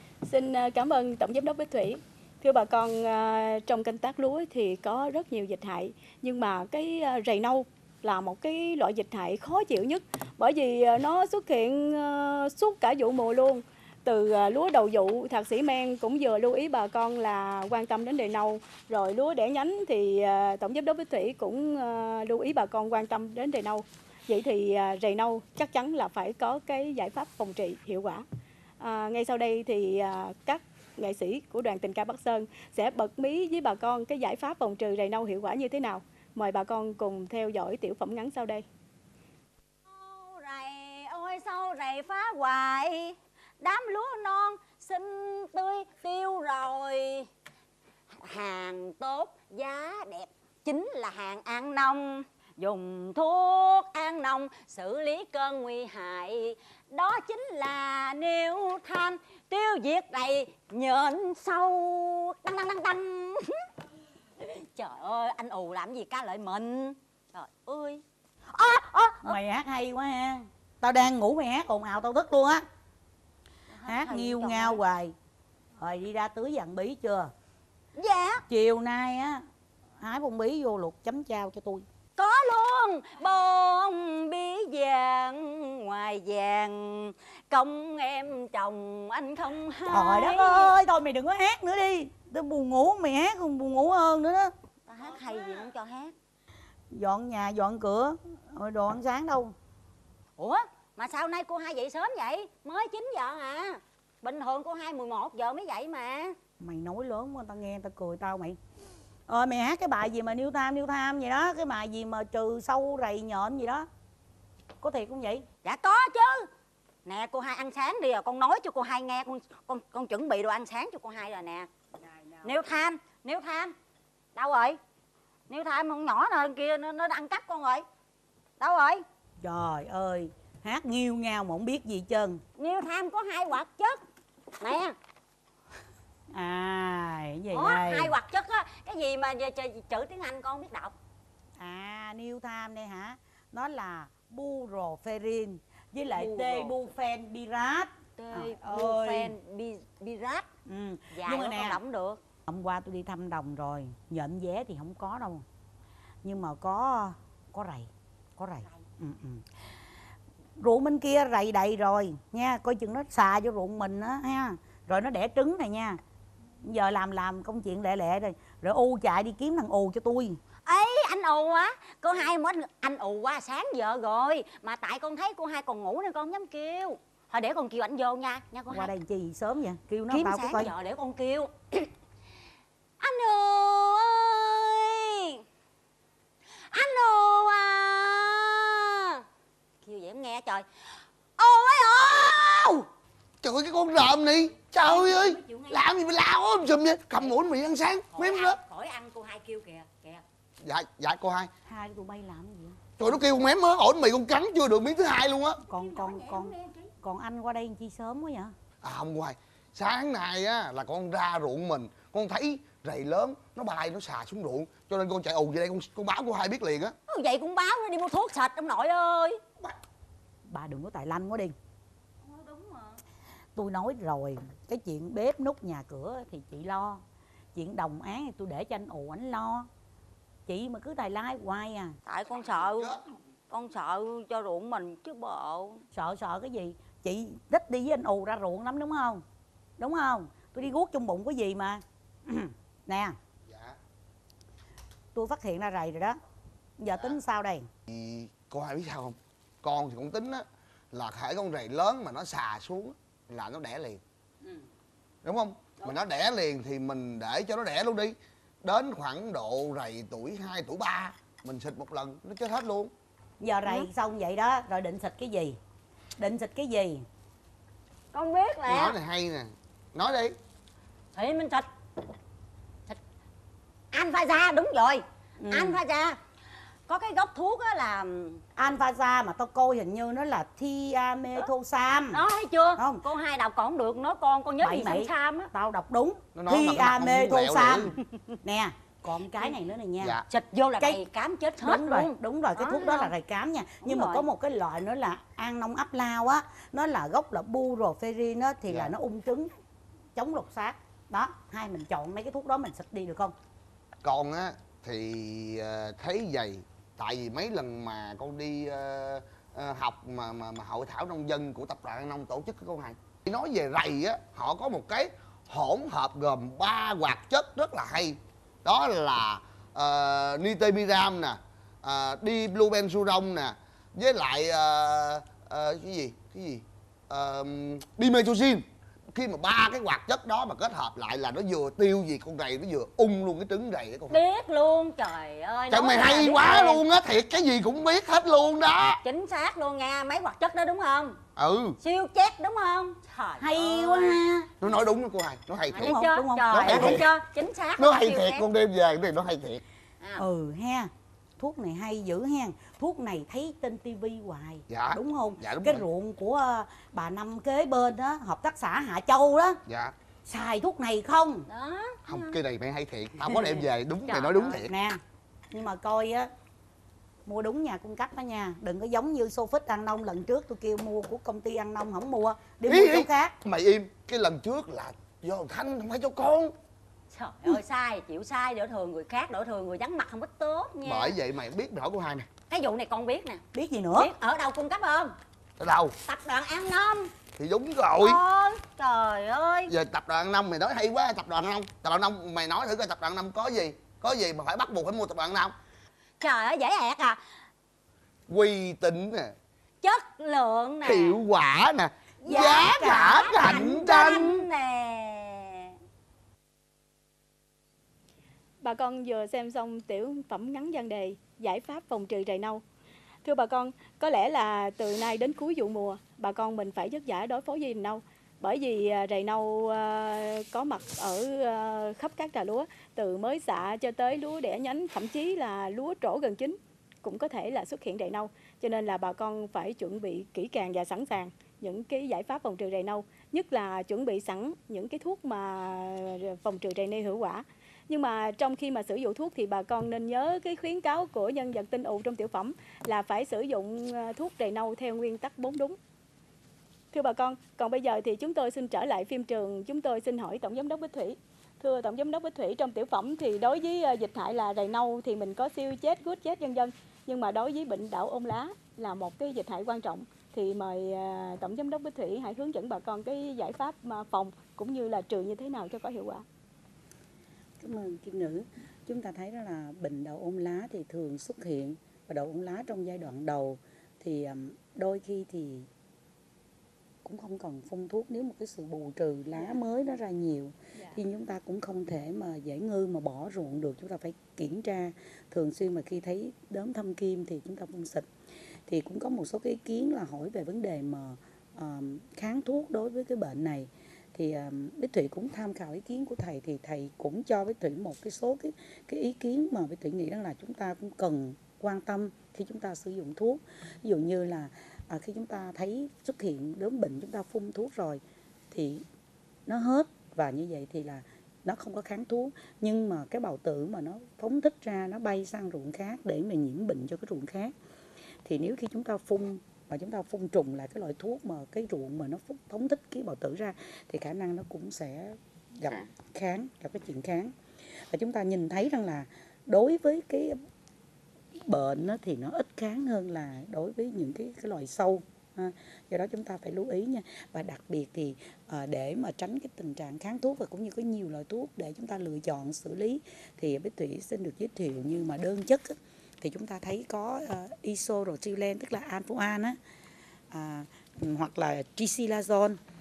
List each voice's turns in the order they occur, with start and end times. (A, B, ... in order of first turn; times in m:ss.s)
0:00.2-0:28.2 A
0:28.8-0:38.6 A
0:39.9-0:47.3 B
0:48.1-1:03.6 B
1:04.4-1:09.4 B
1:09.2-1:12.6 C
1:13.7-1:14.8 B
1:13.9-1:15.1 C
1:15.8-1:17.3 C
1:18.0-1:18.4 B
1:18.5-1:19.4 C
1:20.0-1:21.8 C
1:22.2-1:30.7 B
1:29.9-1:34.5 C
1:34.9-1:36.1 B
1:36.9-1:39.5 C
1:40.4-1:46.4 B
1:46.6-1:48.6 C
1:49.3-1:53.9 C
1:54.8-1:55.5 C
1:55.6-1:56.5 B
1:57.0-2:01.7 B
2:02.0-2:02.6 C
2:02.4-2:03.7 B
2:04.3-2:04.8 B
2:05.5-2:07.8 B
2:08.6-2:09.0 B
2:09.4-2:12.4 C
2:12.6-2:14.0 B
2:14.6-2:15.0 B
2:16.3-2:18.1 C
2:17.5-2:20.9 B
2:21.6-2:29.3 C
2:26.1-2:26.8 B
2:28.2-2:30.5 B
2:30.7-2:31.8 C
2:31.1-2:32.2 B
2:32.5-2:35.4 C
2:36.2-2:39.4 C
2:40.6-2:46.0 C
2:46.6-2:50.4 C
2:50.6-2:58.9 B
2:58.7-3:00.7 C
3:00.1-3:01.9 B
3:03.0-3:05.4 B
3:06.7-3:09.2 B
3:09.8-3:10.7 B
3:11.4-3:12.9 B
3:13.4-3:18.6 D
3:14.8-3:15.9 B
3:18.1-3:20.2 B
3:20.6-3:21.5 D
3:21.6-3:22.8 C
3:23.0-3:25.6 D
3:25.7-3:28.5 C
3:25.7-3:26.9 B
3:28.8-3:37.0 D
3:37.1-3:39.4 B
3:40.5-3:41.5 C
3:42.2-3:43.0 B
3:43.6-3:47.0 C
3:47.5-3:49.7 C
3:50.5-3:52.0 C
3:52.0-3:55.8 B
3:52.4-3:53.0 D
3:55.9-3:59.2 C
3:59.8-4:03.2 C
4:03.5-4:03.8 D
4:05.1-4:06.2 C
4:06.8-4:07.7 C
4:07.9-4:14.0 D
4:15.2-4:22.9 D
4:23.4-4:25.6 C
4:26.2-4:27.0 C
4:28.1-4:29.0 B
4:28.6-4:30.4 D
4:31.1-4:31.7 B
4:33.9-4:36.2 B
4:35.4-4:35.8 C
4:36.9-4:38.4 B
4:38.6-4:42.2 C
4:42.1-4:45.5 B
4:42.8-4:43.0 C
4:44.6-4:47.9 C
4:46.3-4:47.9 D
4:48.4-4:50.2 C
4:50.3-4:53.1 B
4:51.6-4:59.5 C
4:53.8-4:54.3 B
4:58.7-4:58.9 D
5:00.1-5:03.3 C
5:04.0-5:34.2 D
5:34.1-5:36.8 B
5:35.7-5:39.0 D
5:39.0-5:41.2 B
5:41.4-5:41.8 D
5:41.8-5:44.2 B
5:43.4-5:44.5 C
5:44.6-5:46.0 D
5:45.7-5:48.5 B
5:45.8-5:47.0 C
5:46.5-5:47.1 D
5:47.8-5:49.6 D
5:50.2-5:59.6 C
5:54.7-5:55.8 D
5:59.7-5:59.9 D
6:00.2-6:01.5 C
6:01.5-6:02.4 B
6:02.1-6:04.7 D
6:03.3-6:04.6 B
6:04.7-6:05.0 C
6:05.5-6:06.3 C
6:07.2-6:13.3 C
6:12.6-6:16.5 D
6:17.1-6:21.2 B
6:20.8-6:22.4 D
6:22.4-6:23.4 B
6:23.5-6:24.1 C
6:24.0-6:25.2 B
6:25.6-6:26.0 D
6:26.0-6:27.1 B
6:27.3-6:28.2 D
6:28.0-6:29.7 B
6:29.7-6:35.5 D
6:36.2-6:37.2 B
6:38.3-6:39.3 D
6:39.8-6:41.2 B
6:40.8-6:44.4 D
6:42.2-6:45.7 B
6:48.6-6:52.6 A
6:53.2-7:25.8 A
7:26.9-7:46.2 A
7:47.6-7:55.7 E
7:57.0-8:08.1 E
8:08.7-8:28.8 E
8:29.5-8:37.5 E
8:38.2-8:47.3 E
8:47.9-8:50.4 E
8:51.4-9:09.6 E
9:10.3-9:12.6 E